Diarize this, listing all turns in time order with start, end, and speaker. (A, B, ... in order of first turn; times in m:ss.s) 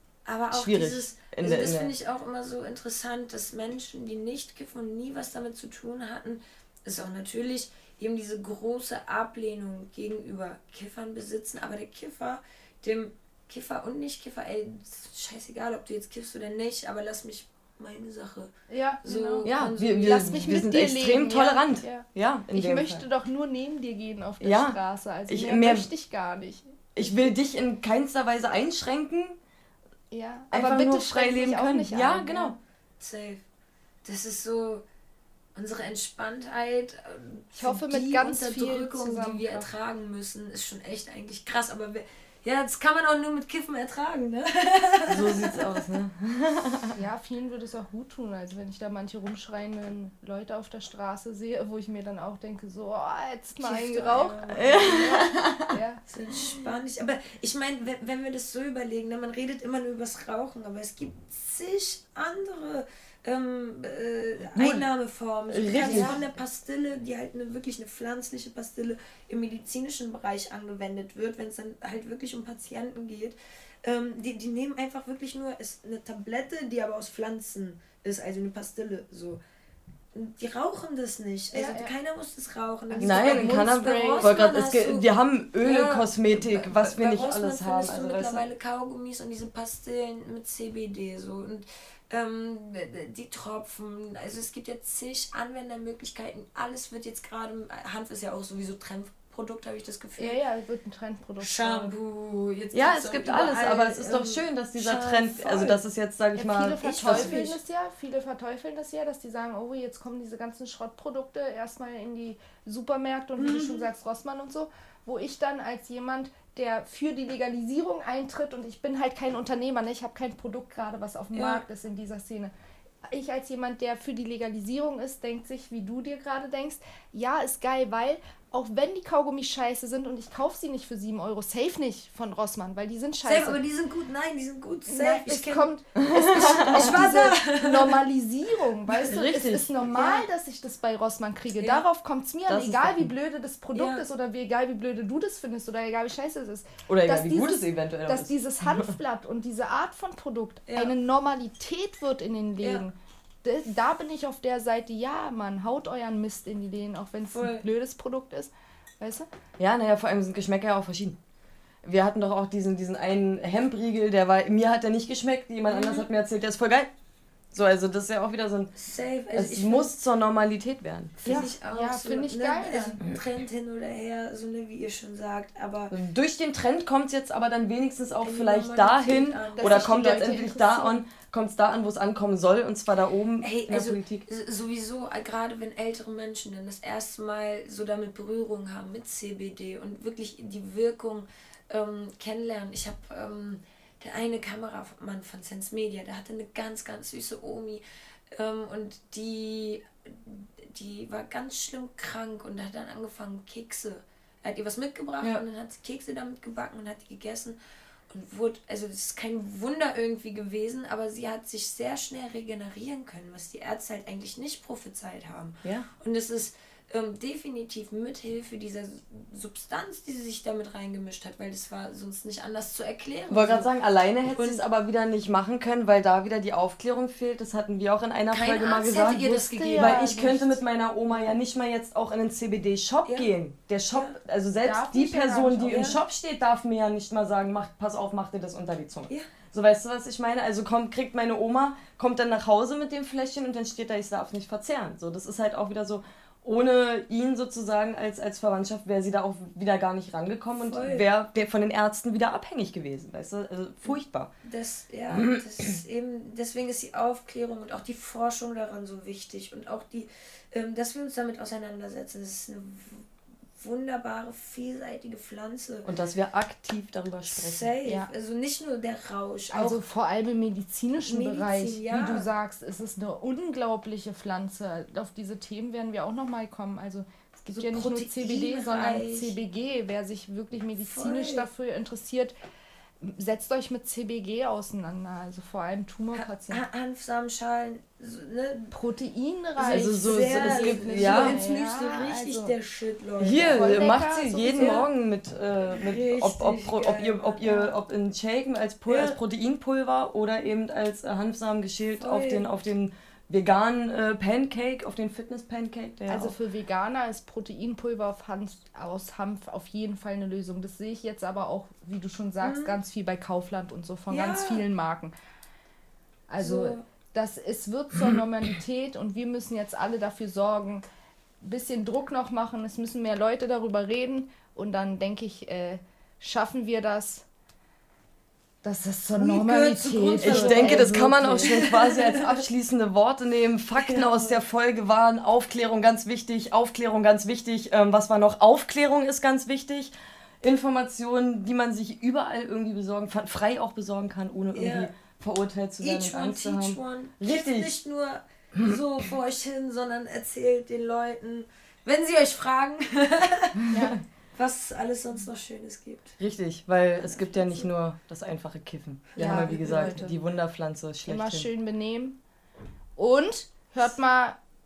0:00.2-0:18.5 A
0:00.5-0:01.9 B
0:18.7-0:26.8 C
0:19.0-0:20.4 A
0:19.4-0:23.0 B
0:24.4-0:25.9 B
0:27.0-0:29.4 B
0:30.1-0:32.6 C
0:30.5-0:32.6 B
0:33.0-0:33.4 A
0:34.0-0:34.8 A
0:35.5-0:45.6 A
0:37.5-0:39.7 C
0:45.1-0:46.9 B
0:46.9-0:56.0 C
0:53.6-0:55.2 A
0:54.5-0:55.8 B
0:56.1-1:19.4 A
1:04.5-1:04.8 B
1:05.5-1:06.2 B
1:05.7-1:06.2 C
1:20.1-1:25.0 A
1:21.5-1:21.9 C
1:22.9-1:24.3 C
1:23.0-1:28.5 B
1:25.6-1:40.4 A
1:40.2-1:41.9 C
1:41.4-1:45.8 A
1:42.7-1:47.4 B
1:46.4-2:02.5 C
1:46.8-1:47.6 A
1:53.4-1:53.9 A
2:01.3-2:01.6 A
2:03.1-2:13.6 C
2:13.2-2:15.7 A
2:14.9-2:39.3 C
2:16.0-2:17.0 B
2:16.3-2:18.0 A
2:19.0-2:19.7 B
2:19.9-2:20.2 A
2:21.5-2:21.8 A
2:22.5-2:23.1 B
2:23.7-2:24.0 A
2:26.9-2:28.9 B
2:30.7-2:30.9 A
2:37.3-2:37.6 A
2:39.6-2:41.2 B
2:41.8-2:46.9 B
2:45.7-2:46.1 A
2:47.5-2:48.7 B
2:48.8-2:49.9 A
2:49.3-2:51.4 B
2:51.2-2:55.9 A
2:51.2-2:53.0 C
2:55.9-3:04.2 B
2:58.2-3:00.0 A
2:59.6-3:01.0 C
3:03.4-3:27.6 A
3:28.1-3:43.7 A
3:43.3-4:14.3 B
3:44.2-3:44.6 A
3:48.3-3:50.6 A
3:49.5-3:50.1 C
3:54.6-3:56.0 C
3:55.7-3:55.9 A
4:10.5-4:11.1 A
4:14.4-4:23.0 A
4:15.1-4:15.7 B
4:23.6-4:25.9 A
4:25.8-4:27.7 B
4:27.3-4:29.8 A
4:29.5-4:42.3 C
4:31.1-4:32.3 A
4:37.5-4:39.4 A
4:40.8-4:41.5 A
4:43.0-4:46.6 C
4:46.1-4:48.7 A
4:48.7-4:52.5 C
4:49.6-4:53.9 A
4:49.7-4:51.4 B
4:53.2-5:06.4 B
4:53.3-4:54.8 C
4:54.6-4:54.8 A
4:55.7-4:57.8 A
4:58.9-4:59.2 A
5:02.0-5:02.5 A
5:06.1-5:15.1 C
5:12.4-5:12.8 A
5:14.1-5:14.6 A
5:16.3-5:20.8 C
5:16.4-5:16.8 A
5:21.4-5:27.2 C
5:28.6-5:31.7 C
5:29.1-5:32.4 A
5:30.2-5:47.7 B
5:33.8-5:34.4 A
5:44.5-5:44.9 A
5:45.8-5:53.7 A
5:53.7-5:54.0 C
5:54.4-5:56.2 A
5:56.2-6:01.5 B
5:57.0-5:57.7 A
5:59.1-6:00.1 A
5:59.2-6:00.2 C
6:01.0-6:02.2 C
6:03.0-6:04.4 C